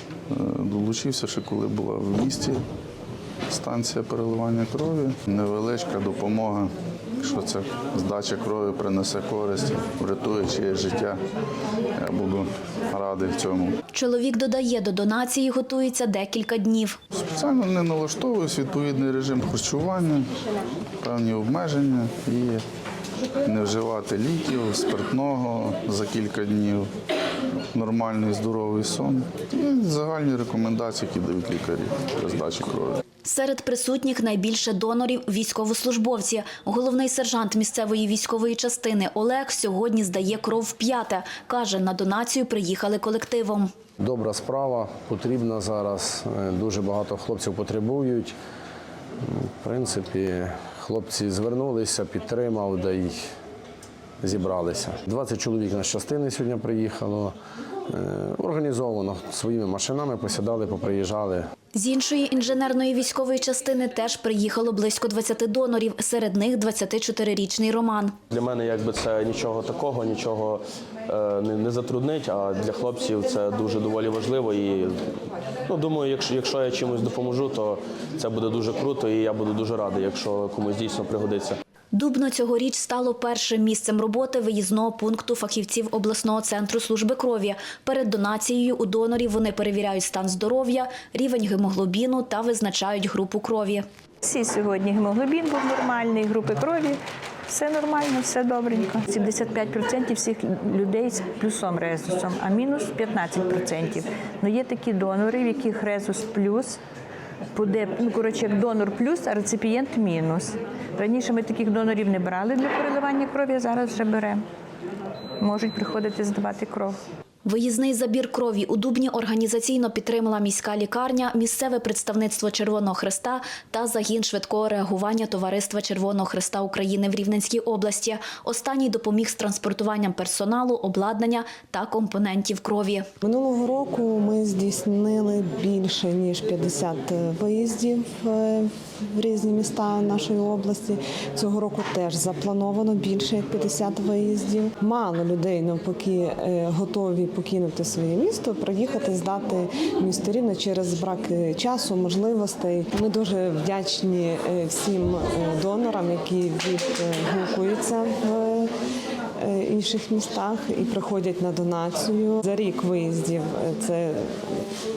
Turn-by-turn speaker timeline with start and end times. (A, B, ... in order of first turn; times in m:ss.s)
0:00.3-0:02.6 A
0:03.5-0:11.2 A
0:12.0-0:13.8 A
0:13.9-0:17.0 B
0:17.1-0:20.3 A
0:21.0-0:22.6 A
0:23.4-0:26.9 A
0:27.7-0:33.0 A
0:33.2-0:43.7 B
0:44.0-0:48.3 C
0:49.2-0:53.3 C
0:54.2-0:57.3 C
0:57.9-1:01.4 C
1:01.7-1:08.1 B
1:08.3-1:15.0 D
1:15.6-1:21.6 D
1:21.9-1:33.8 B
1:34.2-1:46.8 E
1:47.5-1:54.4 E
1:55.4-1:57.0 E
1:57.4-2:13.1 B
2:13.2-2:38.7 F
2:39.4-2:44.7 F